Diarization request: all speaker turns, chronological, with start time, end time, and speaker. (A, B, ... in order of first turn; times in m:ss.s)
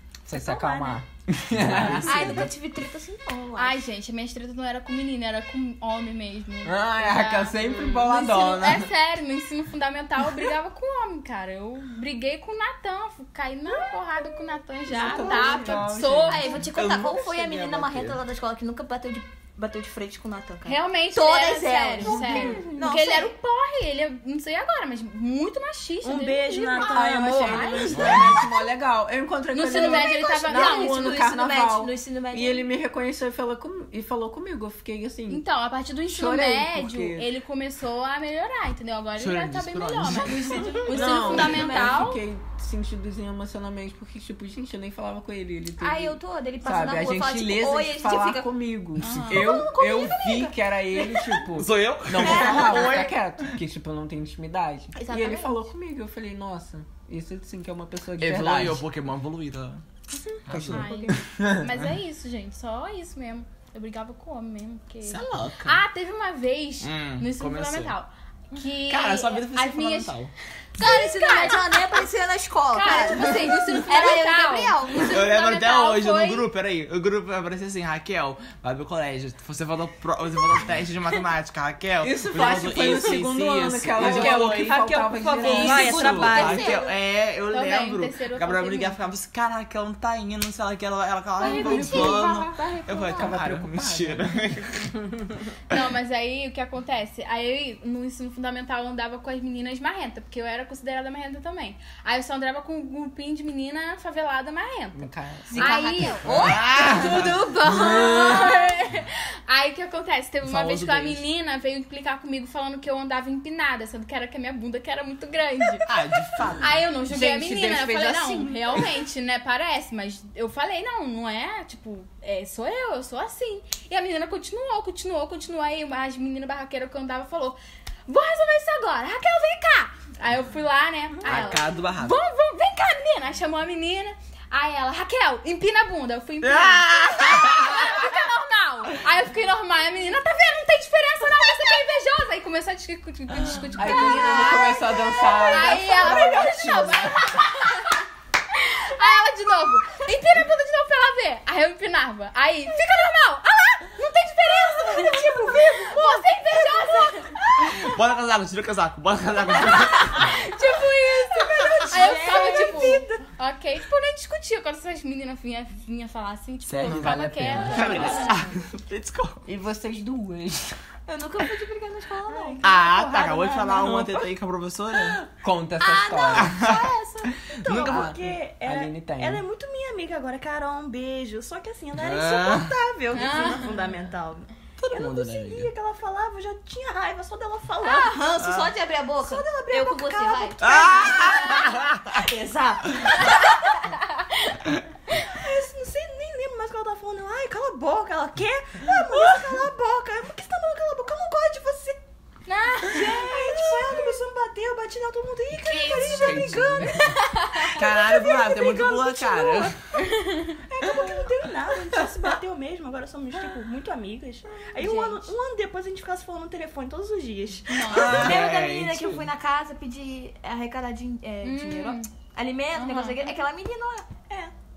0:00.2-0:02.5 A
0:00.3-0:01.0 B
0:01.6-0:02.5 C
0:01.7-0:02.1 B
0:02.0-0:03.8 D
0:03.6-0:16.6 E
0:06.6-0:08.9 A
0:14.9-0:16.4 A
0:15.2-0:18.2 C
0:16.2-0:23.3 D
0:20.6-0:28.0 E
0:22.1-0:22.7 A
0:26.0-0:28.5 B
0:26.8-0:35.4 A
0:27.9-0:28.3 C
0:29.5-0:31.2 E
0:29.7-0:32.7 D
0:35.3-0:42.2 E
0:36.1-0:37.3 A
0:39.2-0:40.9 C
0:40.4-0:42.1 D
0:40.9-0:58.8 A
0:45.8-0:48.5 D
0:49.0-0:49.5 E
0:49.2-0:51.4 D
0:51.5-0:53.5 C
0:52.2-0:52.8 D
0:54.9-0:55.6 D
0:58.2-0:59.8 C
1:00.4-1:00.9 C
1:00.5-1:01.7 A
1:00.5-1:10.2 E
1:05.0-1:05.8 C
1:06.8-1:07.9 C
1:08.8-1:10.3 C
1:10.8-1:11.9 E
1:10.8-1:15.4 D
1:12.7-1:16.5 E
1:15.0-1:34.9 C
1:22.0-1:26.4 A
1:24.0-1:26.8 B
1:25.3-1:26.9 D
1:27.5-1:29.0 E
1:31.4-1:33.2 E
1:31.4-1:33.3 D
1:33.1-1:35.2 A
1:35.7-1:46.3 E
1:44.9-1:45.8 A
1:45.5-1:48.8 D
1:46.2-1:47.6 C
1:47.6-1:55.9 E
1:50.4-1:51.2 C
1:55.8-1:56.8 C
1:56.6-2:37.7 E
1:57.1-1:58.9 A
2:11.2-2:12.2 C
2:16.4-2:18.1 C
2:23.3-2:24.0 C
2:23.8-2:27.4 A
2:34.9-2:37.2 B
2:37.6-2:40.4 C
2:39.7-2:48.4 E
2:40.8-2:43.2 B
2:41.6-2:42.0 C
2:46.6-2:49.4 C
2:46.8-2:48.4 A
2:47.9-2:48.4 B
2:49.4-2:50.8 A
2:51.1-2:52.6 D
2:52.3-2:54.2 B
2:52.6-2:55.2 C
2:54.0-2:54.2 A
2:55.3-2:56.6 A
2:55.8-2:57.6 D
2:56.3-2:56.9 C
2:57.5-2:58.1 C
2:57.6-3:08.2 B
2:57.8-2:59.4 A
3:01.9-3:02.8 C
3:03.1-3:03.7 E
3:04.8-3:05.7 C
3:07.8-3:11.3 D
3:08.4-3:08.7 C
3:09.2-3:13.8 B
3:10.6-3:12.2 C
3:13.8-3:14.6 E
3:15.2-3:22.0 B
3:22.5-3:23.7 E
3:22.8-3:29.7 B
3:26.0-3:26.9 C
3:26.1-3:26.9 A
3:26.8-3:27.8 E
3:27.6-3:29.7 C
3:30.0-3:30.6 E
3:30.7-3:38.3 B
3:34.8-3:35.3 E
3:37.7-3:38.4 E
3:37.9-3:39.3 C
3:38.0-3:44.1 D
3:41.4-3:42.1 E
3:42.7-3:43.3 E